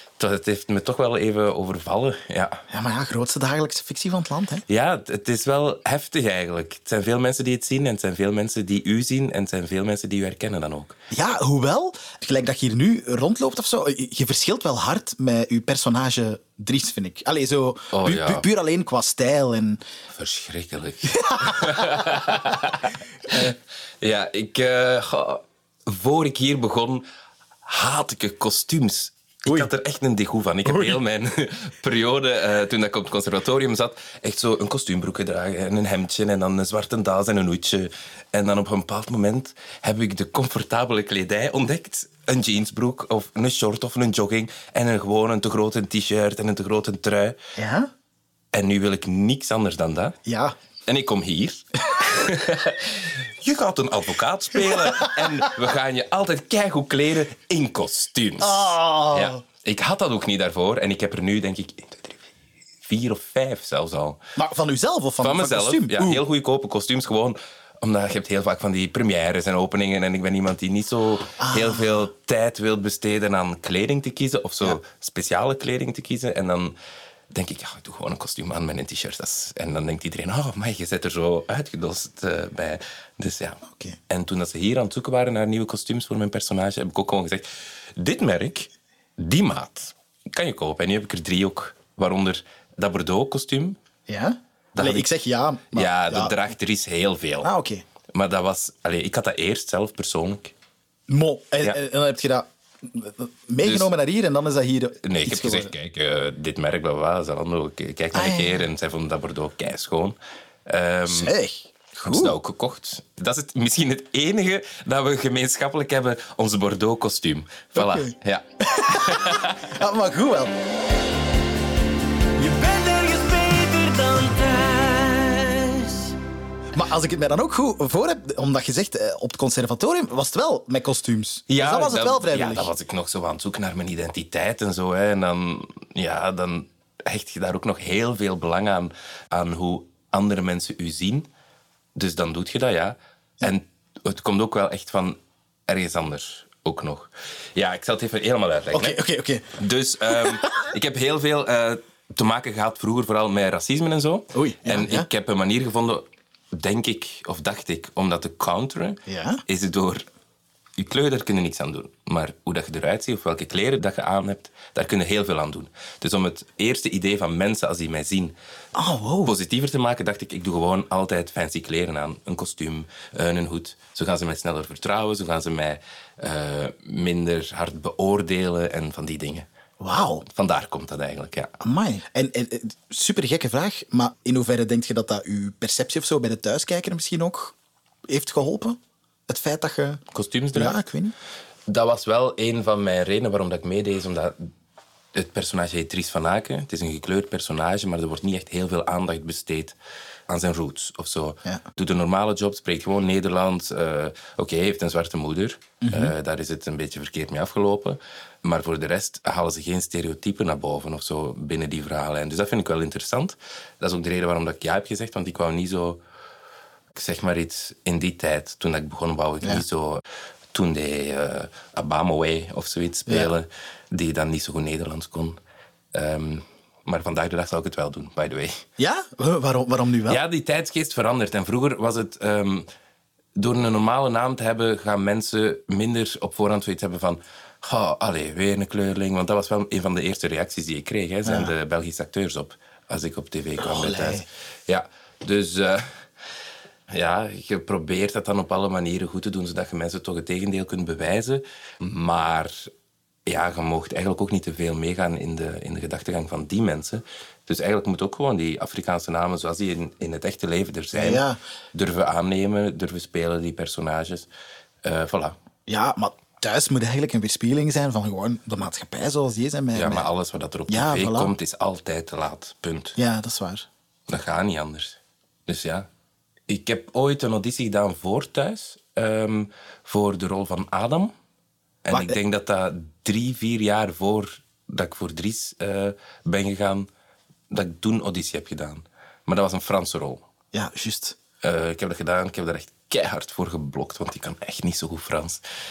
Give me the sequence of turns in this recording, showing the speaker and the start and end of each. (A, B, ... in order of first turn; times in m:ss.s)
0:00.2-0:02.6 A
0:02.7-0:04.6 B
0:04.7-0:11.0 A
0:11.1-0:19.8 B
0:17.9-0:18.5 A
0:20.1-0:27.1 A
0:21.1-0:22.1 B
0:27.6-0:47.4 A
0:30.6-0:31.0 B
0:47.6-0:47.9 B
0:48.5-0:50.2 A
0:50.3-0:50.6 B
0:50.9-1:02.2 A
0:58.4-0:59.4 B
1:02.8-1:04.2 A
1:04.4-1:06.2 B
1:05.2-1:16.8 A
1:11.4-1:12.1 B
1:17.3-1:27.4 A
1:23.7-1:24.0 B
1:28.0-1:33.8 A
1:34.1-1:36.4 B
1:34.8-1:35.1 A
1:35.7-1:37.5 A
1:37.4-1:37.8 B
1:38.1-1:40.5 A
1:41.1-1:45.7 B
1:43.6-1:43.9 A
1:45.0-1:51.3 A
1:48.1-1:48.6 B
1:51.1-1:52.4 B
1:52.0-1:59.7 A
1:57.8-1:58.1 B
1:58.6-2:00.5 B
2:02.4-2:06.1 C
2:06.7-2:12.7 B
2:11.5-2:21.3 A
2:22.0-2:29.0 A
2:28.7-2:29.5 B
2:29.6-2:40.0 A
2:30.1-2:30.6 B
2:34.3-2:35.1 B
2:39.1-2:39.4 B
2:40.8-2:48.4 A
2:48.8-2:49.3 B
2:49.2-2:59.5 A
2:59.8-3:00.2 B
3:00.3-3:01.5 A
3:01.6-3:07.6 B
3:08.1-3:10.0 B
3:10.1-3:10.8 A
3:10.5-3:11.1 B
3:11.7-3:14.5 A
3:15.1-3:19.8 A
3:20.3-3:36.0 A
3:25.8-3:26.1 B
3:36.9-3:45.4 A
3:45.9-3:48.6 A
3:48.8-3:50.2 B
3:50.1-3:52.7 A
3:53.4-4:06.0 A
4:01.2-4:01.5 B
4:03.6-4:04.2 B
4:06.9-4:12.7 A
4:13.3-4:24.3 A
4:20.9-4:21.4 B
4:24.8-4:25.4 A
4:25.7-4:30.1 B
4:29.7-4:33.0 A
4:30.7-4:31.3 B
4:33.0-4:33.7 B
4:34.1-4:35.9 A
4:36.5-4:41.1 A
4:41.8-4:46.9 A
4:41.9-4:42.2 B
4:47.5-4:50.2 A
4:50.5-4:51.2 B
4:51.4-4:55.4 A